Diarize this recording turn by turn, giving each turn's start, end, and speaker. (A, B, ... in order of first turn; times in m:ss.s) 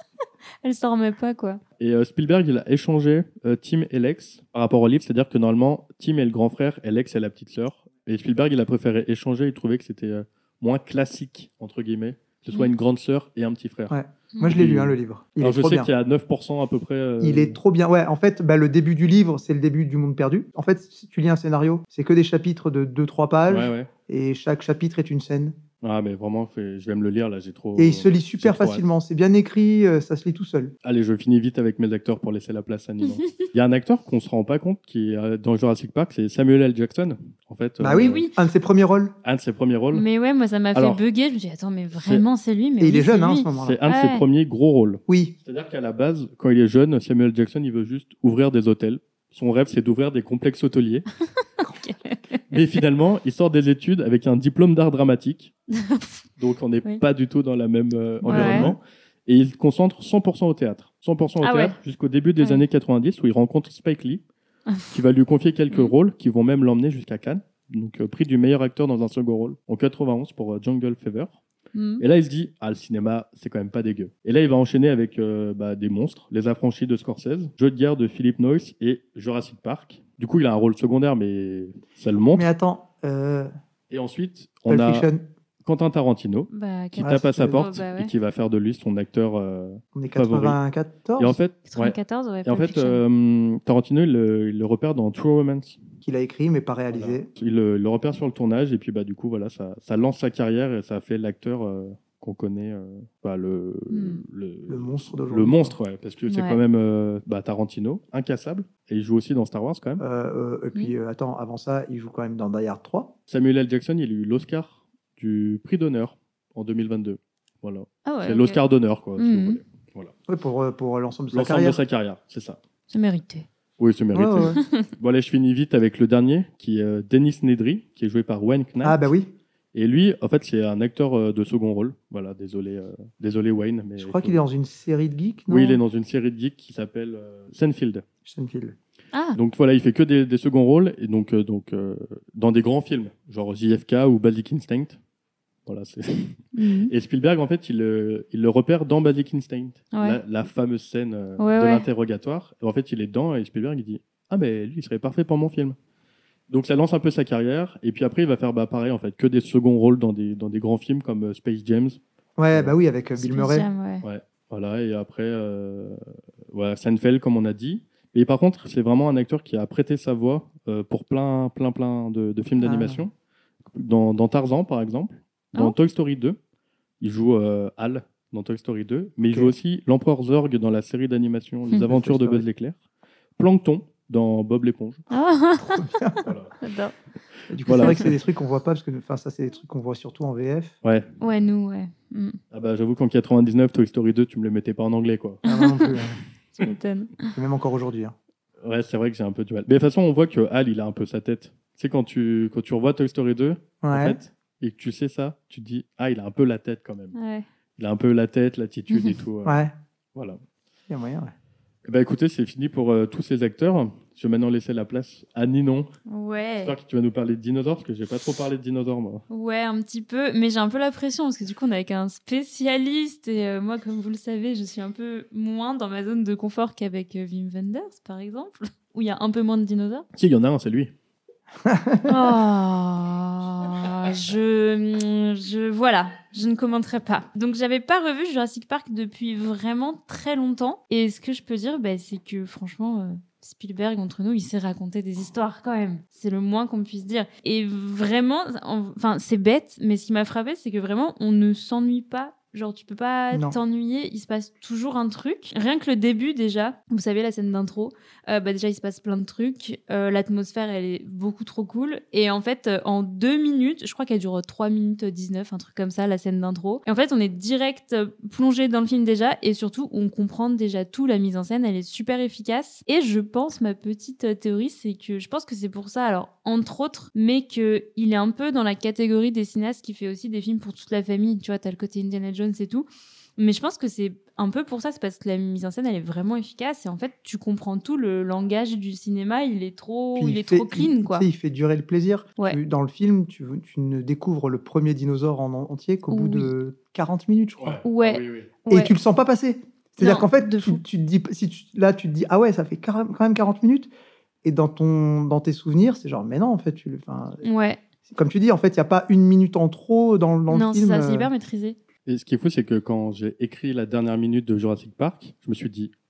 0:00.6-0:01.6 A
0:01.8-0:14.0 B
0:13.9-0:15.9 C
0:14.3-0:14.6 A
0:14.5-0:17.6 B
0:17.2-0:25.6 C
0:23.5-0:23.9 B
0:25.8-0:28.8 B
0:27.8-0:30.7 C
0:30.8-0:38.2 B
0:33.0-0:33.3 A
0:37.8-0:39.1 C
0:37.9-0:38.4 A
0:39.2-0:40.1 B
0:39.9-0:44.2 A
0:40.8-0:41.0 B
0:42.0-0:42.2 B
0:42.8-0:43.8 C
0:43.6-0:51.1 B
0:45.1-0:45.4 C
0:51.4-0:52.4 A
0:52.5-0:55.5 B
0:55.7-0:56.2 A
0:56.4-1:04.2 B
0:58.2-0:58.8 C
0:58.3-0:58.7 A
1:01.4-1:01.8 A
1:04.9-1:11.4 B
1:11.7-1:12.0 A
1:12.0-1:22.5 B
1:22.3-1:23.5 C
1:23.9-1:25.1 B
1:24.7-1:25.2 C
1:25.6-1:30.6 B
1:26.5-1:28.1 A
1:27.0-1:27.7 C
1:30.0-1:31.4 C
1:31.2-1:35.8 B
1:31.7-1:33.0 A
1:36.0-1:37.3 C
1:36.9-1:50.0 B
1:43.9-1:44.2 A
1:44.7-1:45.8 C
1:46.3-1:46.6 A
1:50.0-1:53.1 C
1:53.3-2:00.1 B
1:58.1-1:58.6 A
1:59.2-1:59.6 A
2:00.3-2:01.8 C
2:01.3-2:02.6 B
2:02.9-2:03.5 A
2:03.8-2:09.0 B
2:04.1-2:04.6 C
2:04.4-2:04.9 A
2:08.8-2:09.3 C
2:09.7-2:14.4 B
2:14.0-2:15.8 C
2:15.5-2:18.0 B
2:18.2-2:18.8 C
2:19.1-2:19.4 A
2:19.4-2:25.0 B
2:25.7-2:35.8 B
2:26.6-2:26.9 A
2:29.9-2:30.2 A
2:31.4-2:31.9 A
2:36.5-2:42.0 B
2:42.4-2:43.7 C
2:43.2-2:44.0 A
2:44.0-2:53.1 B
2:52.6-2:53.0 C
2:53.7-2:56.4 B
2:57.0-3:02.8 B
2:59.3-2:59.6 C
3:01.8-3:02.4 C
3:03.4-3:05.0 B
3:05.1-3:06.0 A
3:05.6-3:06.3 C
3:06.2-3:06.6 B
3:06.6-3:06.9 A
3:07.5-3:10.8 C
3:07.6-3:08.1 B
3:10.8-3:11.1 B
3:11.2-3:12.4 A
3:12.5-3:15.4 B
3:15.4-3:16.0 A
3:15.5-3:16.2 C
3:16.6-3:17.3 A
3:17.3-3:18.2 C
3:18.6-3:27.2 B
3:23.8-3:24.2 C
3:27.1-3:27.5 A
3:27.8-3:29.6 B
3:28.9-3:29.2 A
3:29.4-3:29.7 C
3:30.9-3:31.3 C
3:31.8-3:35.9 B
3:36.1-3:36.7 A
3:36.6-3:39.2 B
3:39.3-3:50.0 A
3:50.2-3:50.9 B
3:51.6-3:52.1 C
3:52.0-4:42.9 A
4:13.3-4:13.6 C
4:43.4-4:51.3 A
4:50.2-4:57.8 C
4:56.1-4:56.5 A
4:57.6-4:58.5 B
4:57.8-4:58.9 A
4:58.7-5:03.9 C
5:00.0-5:00.8 A
5:04.4-5:07.4 C
5:07.4-5:07.8 A
5:08.1-5:11.3 C
5:10.5-5:11.8 A
5:12.1-5:15.9 B